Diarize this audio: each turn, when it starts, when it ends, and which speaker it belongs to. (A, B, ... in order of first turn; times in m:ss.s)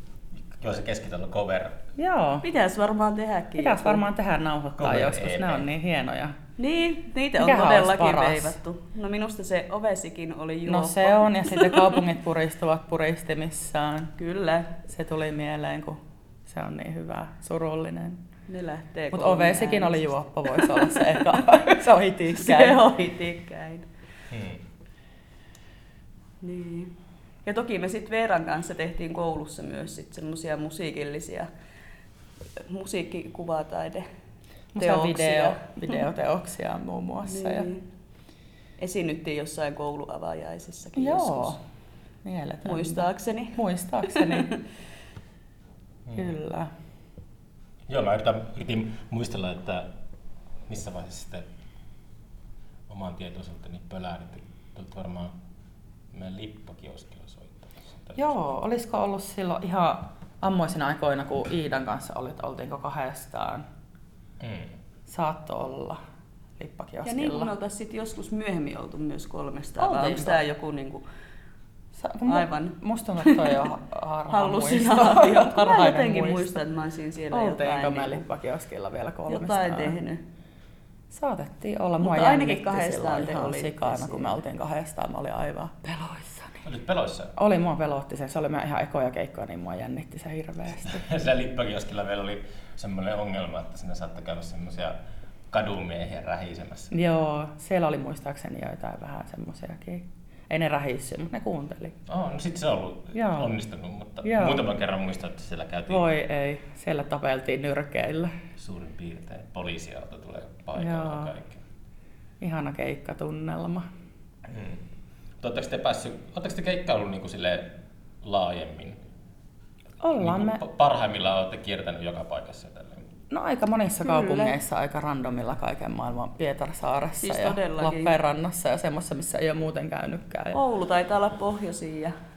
0:00.5-0:01.8 A
0:02.0-0:02.5 B
0:02.4-0:04.0 C
0:03.6-0:06.4 B
0:04.8-0:05.7 A
0:06.6-0:12.0 C
0:07.4-0:08.6 B
0:10.7-0:14.2 B
0:14.2-0:14.7 C
0:14.8-0:18.2 B
0:18.5-0:21.7 C
0:19.1-0:22.8 B
0:22.3-0:23.9 C
0:24.3-0:24.6 A
0:26.4-0:26.9 C
0:27.4-0:31.5 C
0:32.6-0:34.1 C
0:34.8-0:37.7 B
0:34.8-0:36.0 C
0:37.3-0:37.8 C
0:38.8-0:41.6 C
0:41.0-0:41.6 B
0:42.2-0:44.5 B
0:42.6-0:43.6 C
0:44.1-0:44.6 C
0:46.1-0:46.4 A
0:46.1-0:46.7 B
0:47.9-0:49.9 A
0:50.7-0:51.5 A
0:52.9-0:55.4 A
0:56.1-0:58.3 A
0:58.2-1:03.6 B
1:04.4-1:04.7 A
1:05.1-1:06.0 B
1:06.6-1:07.5 B
1:07.0-1:11.0 C
1:09.8-1:10.4 B
1:12.0-1:16.6 B
1:12.3-1:13.6 C
1:14.3-1:18.2 C
1:17.3-1:20.0 B
1:19.3-1:20.2 C
1:21.1-1:26.6 B
1:22.0-1:24.3 C
1:26.6-1:27.3 A
1:27.4-1:31.0 B
1:30.8-1:35.0 A
1:35.5-1:36.9 A
1:36.9-1:42.0 B
1:42.1-1:46.0 A
1:43.1-1:43.5 B
1:44.2-1:44.6 B
1:45.9-1:48.3 B
1:48.6-1:51.6 A
1:50.8-1:51.3 B
1:52.4-1:53.9 B
1:54.5-1:54.8 A
1:55.4-1:59.0 A
2:00.0-2:00.6 B
2:00.2-2:03.1 A
2:03.3-2:10.6 B
2:04.0-2:04.6 C
2:07.2-2:08.1 C
2:10.5-2:12.2 C